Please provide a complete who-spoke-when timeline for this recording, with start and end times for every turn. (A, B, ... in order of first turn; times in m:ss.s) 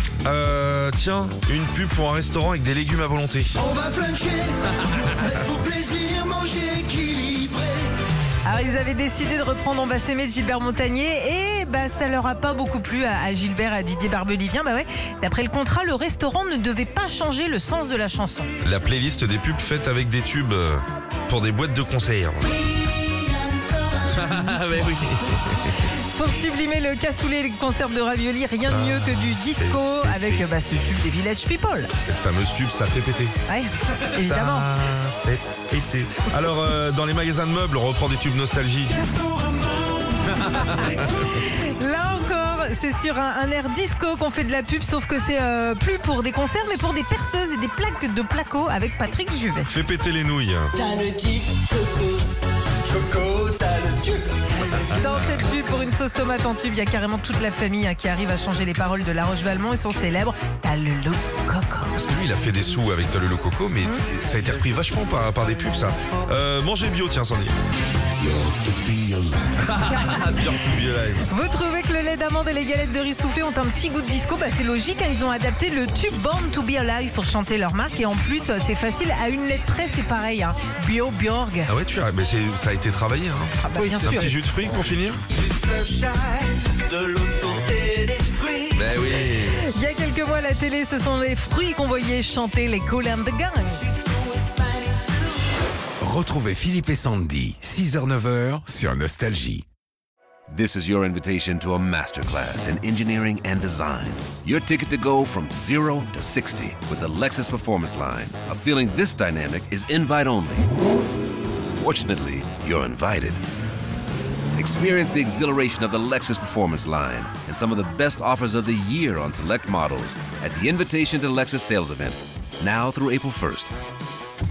0:00.2-0:03.6 A
0:03.6-0:07.9 B
0:08.4-0:18.5 C
0:18.6-0:22.5 A
0:22.7-0:24.2 B
0:24.1-0:25.8 A
0:25.9-0:31.9 C
0:28.7-0:30.4 A
0:32.1-0:33.4 A
0:33.5-0:34.7 C
0:34.2-0:39.0 A
0:39.0-0:40.4 B
0:40.4-0:49.7 C
0:49.7-0:50.7 A
0:50.8-0:52.3 B
0:52.8-0:54.8 B
0:54.8-0:55.3 A
0:54.9-1:02.0 C
1:02.0-1:07.5 A
1:08.3-1:09.3 D
1:09.6-1:11.3 A
1:09.9-1:10.4 C
1:11.3-1:21.7 C
1:21.7-1:25.2 A
1:23.6-1:24.4 C
1:28.7-1:29.6 A
1:29.1-1:33.9 C
1:36.0-1:39.7 D
1:40.5-1:50.7 E
1:51.8-1:53.4 E
1:54.6-2:03.7 E